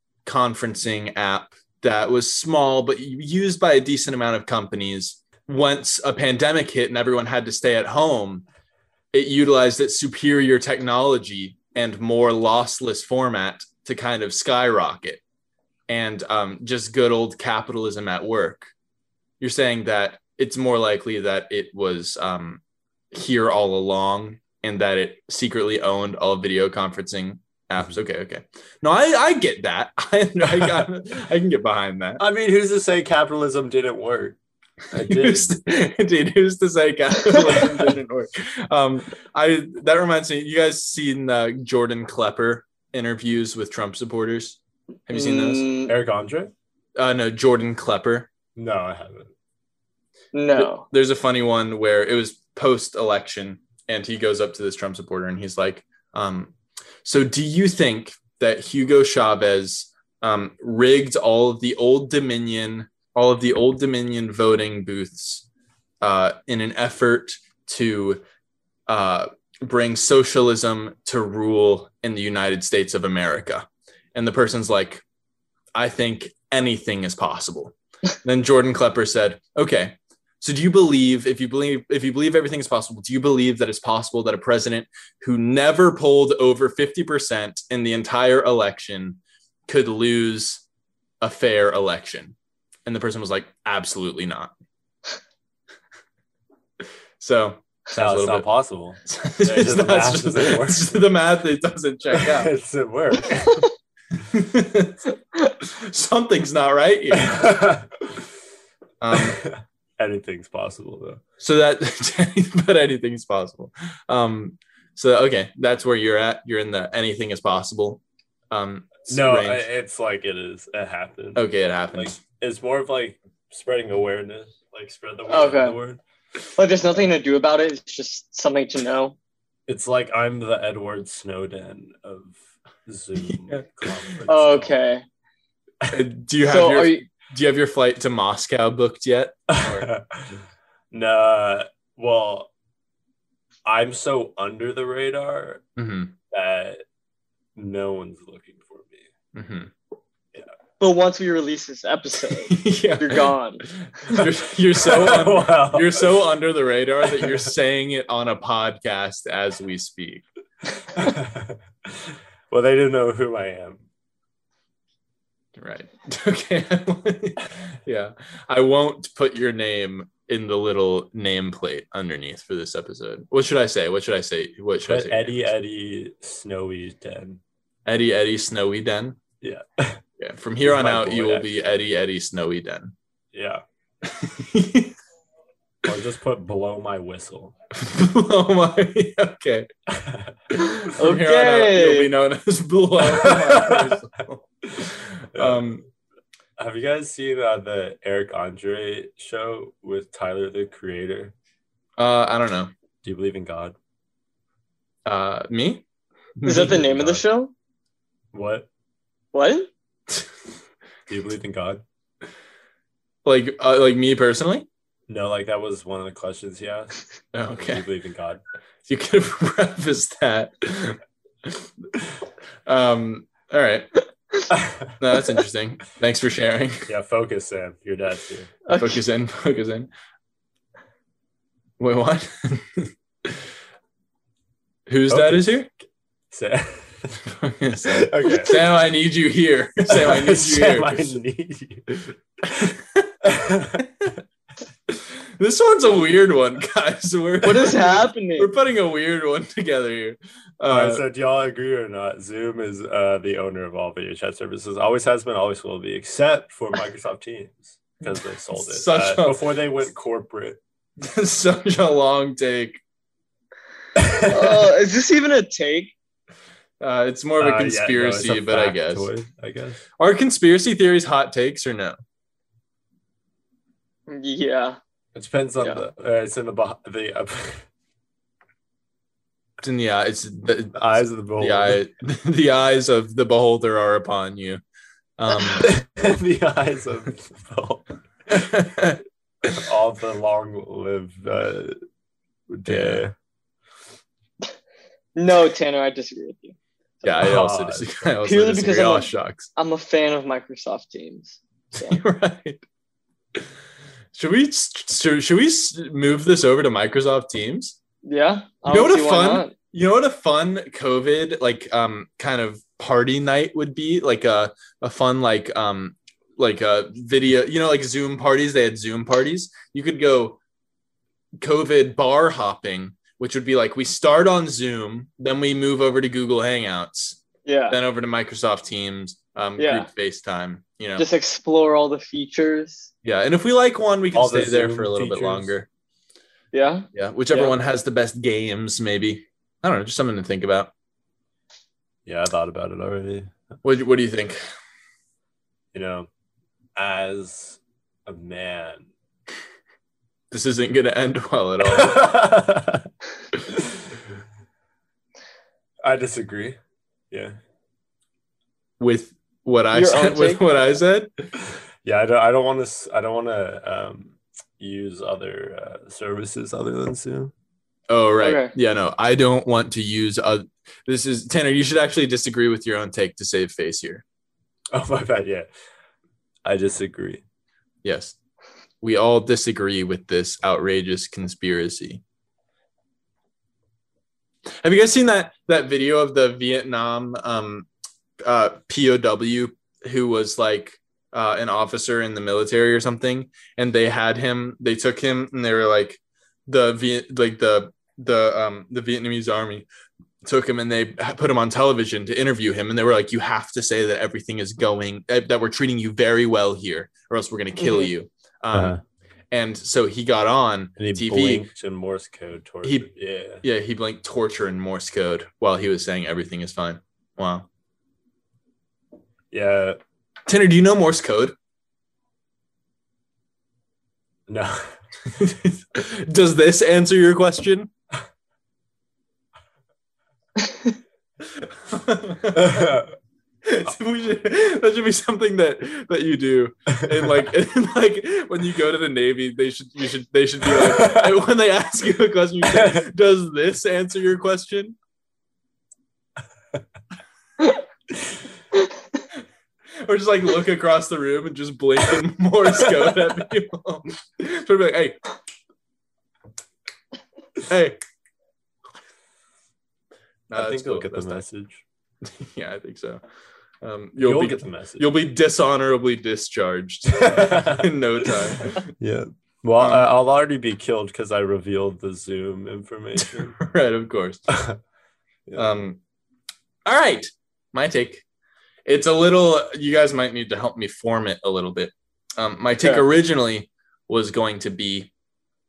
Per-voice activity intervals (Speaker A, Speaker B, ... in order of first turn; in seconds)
Speaker A: 0.2-8.4, 9.1-15.2, 15.9-18.7, 19.4-22.6, 23.1-32.2, 35.0-45.7, 47.0-48.3, 50.6-56.5, 57.0-65.5, 66.0-68.2, 68.9-75.0, 75.8-90.6, 91.2-92.3, 92.9-94.5, 97.2-98.5, 99.1-102.5, 104.3-105.0, 105.6-107.6, 109.0-109.5, 111.4-119.7, 121.3-122.2, 135.9-139.9, 145.8-146.2, 149.3-149.7, 152.5-160.2, 165.6-175.4, 177.9-179.2, 180.2-182.9, 184.0-184.9, 187.7-189.7, 190.5-195.8, 202.0-202.7, 205.1-205.8, 206.4-207.2, 213.2-214.7, 217.3-217.8, 218.9-221.7, 222.7-224.0, 225.0-226.9, 228.8-229.9, 231.8-233.4, 234.9-235.7, 237.3-241.2, 242.4-243.3, 243.8-244.1, 244.9-251.0, 258.1-259.4, 261.0-262.8, 266.8-269.1, 270.0-272.0, 279.6-284.6, 285.2-285.7, 288.3-289.6, 292.7-293.0, 297.0-299.5, 301.8-302.6, 304.1-307.8, 308.7-320.4, 321.4-327.2, 327.7-331.1, 333.0-335.7, 336.9-340.7, 343.6-344.4, 350.3-352.2, 358.8-361.1, 367.9-374.0, 377.8-378.2, 378.8-382.0, 384.6-387.7, 388.2-399.7, 400.2-408.8, 409.3-411.5, 412.6-412.9, 413.4-417.5, 420.3-421.3, 425.1-427.7, 431.4-432.8, 433.4-444.8, 449.8-455.0, 457.4-457.8, 460.3-461.2, 462.1-463.0, 463.6-468.6, 469.6-469.9, 473.0-474.2, 475.4-475.8, 476.7-478.0, 478.7-484.9
Speaker B: 32.2-34.4, 34.9-35.6, 45.9-46.5, 48.6-49.3, 98.0-101.0, 102.1-103.7, 107.1-108.2, 109.1-111.2, 119.1-126.0, 129.7-134.8, 139.5-142.5, 143.7-145.6, 146.3-146.8, 147.6-149.1, 154.1-156.3, 157.1-157.5, 160.9-163.8, 174.9-177.4, 179.4-180.0, 180.6-181.5, 183.3-183.6, 185.8-187.5, 189.9-190.4, 193.0-194.0, 195.3-195.7, 196.6-201.3, 203.0-203.8, 208.3-208.7, 211.1-211.8, 215.1-217.0, 217.5-218.4, 224.5-224.9, 226.9-228.5, 235.1-235.7, 236.3-237.3, 237.8-238.7, 239.9-241.9, 243.2-243.8, 250.7-260.6, 264.0-264.6, 267.4-269.8, 275.1-277.7, 280.7-281.8, 285.4-288.4, 289.5-291.8, 292.5-293.1, 297.2-298.1, 334.1-335.5, 342.1-343.3, 345.7-346.1, 346.8-348.9, 351.6-352.9, 355.8-356.6, 357.1-357.4, 361.8-367.3, 374.7-375.5, 376.4-377.2, 408.5-408.8, 410.8-413.4, 419.3-419.8, 424.3-424.7, 432.4-432.9, 440.6-441.1, 442.5-442.8, 460.3-461.6, 464.0-464.9, 467.0-473.3, 474.3-474.6
Speaker C: 45.1-45.9, 50.3-50.9, 125.3-125.8, 126.6-129.2, 134.3-135.0, 136.4-137.1, 150.8-153.7, 190.6-192.1, 206.4-207.5, 209.3-209.7, 228.7-229.0, 247.4-248.5, 264.3-265.9, 274.1-274.8, 295.2-296.6, 298.2-302.0, 308.0-309.5, 327.5-327.8, 329.6-329.9, 331.0-332.9, 336.5-337.5, 359.7-360.4, 368.2-368.5, 407.6-407.9